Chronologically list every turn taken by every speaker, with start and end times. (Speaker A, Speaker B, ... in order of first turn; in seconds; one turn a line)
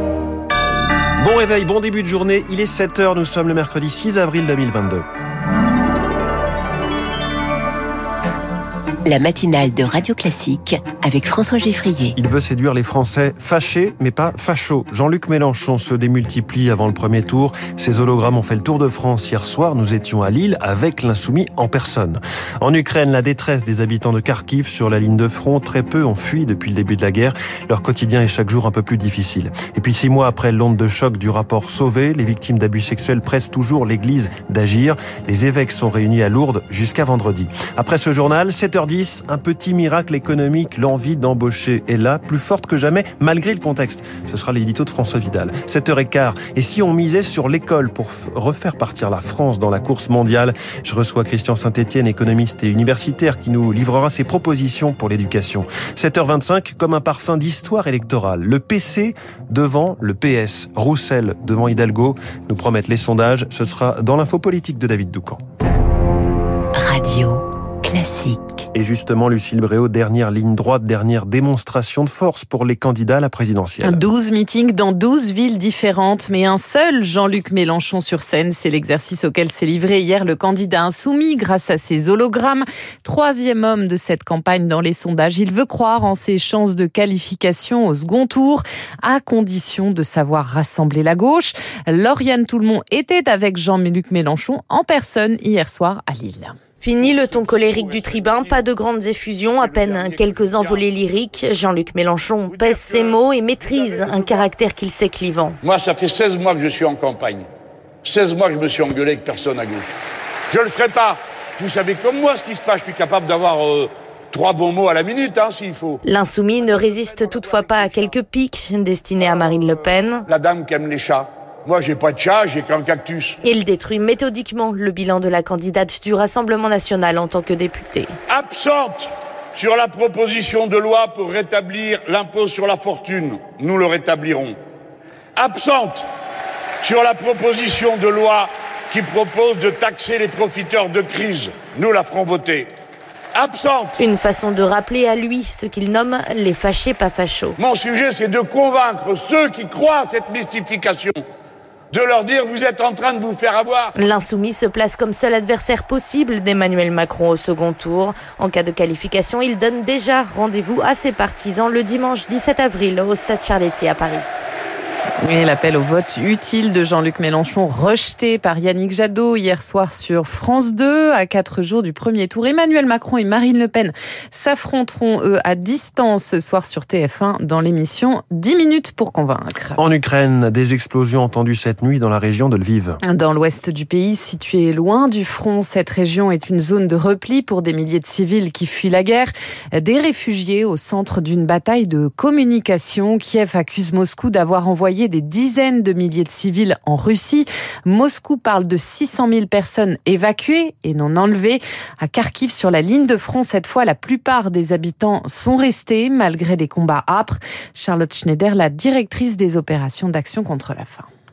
Speaker A: 1.2-5.0
Speaker B: 9.1-12.2
Speaker A: 12.2-65.4
Speaker B: 66.8-68.7
Speaker A: 68.7-74.0
Speaker C: 73.8-96.6
Speaker D: 96.8-105.6
Speaker E: 97.0-98.6
Speaker E: 99.6-100.8
Speaker E: 102.4-104.5
Speaker E: 105.6-107.5
Speaker E: 108.0-109.9
Speaker E: 110.5-116.0
Speaker D: 116.0-120.3
Speaker E: 116.6-118.2
Speaker E: 119.2-123.4
Speaker D: 123.4-128.2
Speaker E: 128.3-134.6
Speaker E: 135.4-136.1
Speaker E: 136.8-142.7
Speaker E: 143.3-144.0
Speaker D: 144.0-147.6
Speaker E: 147.6-151.2
Speaker E: 151.9-153.9
Speaker D: 154.0-164.3
Speaker C: 165.2-179.8
Speaker A: 179.8-183.0
Speaker C: 183.0-211.1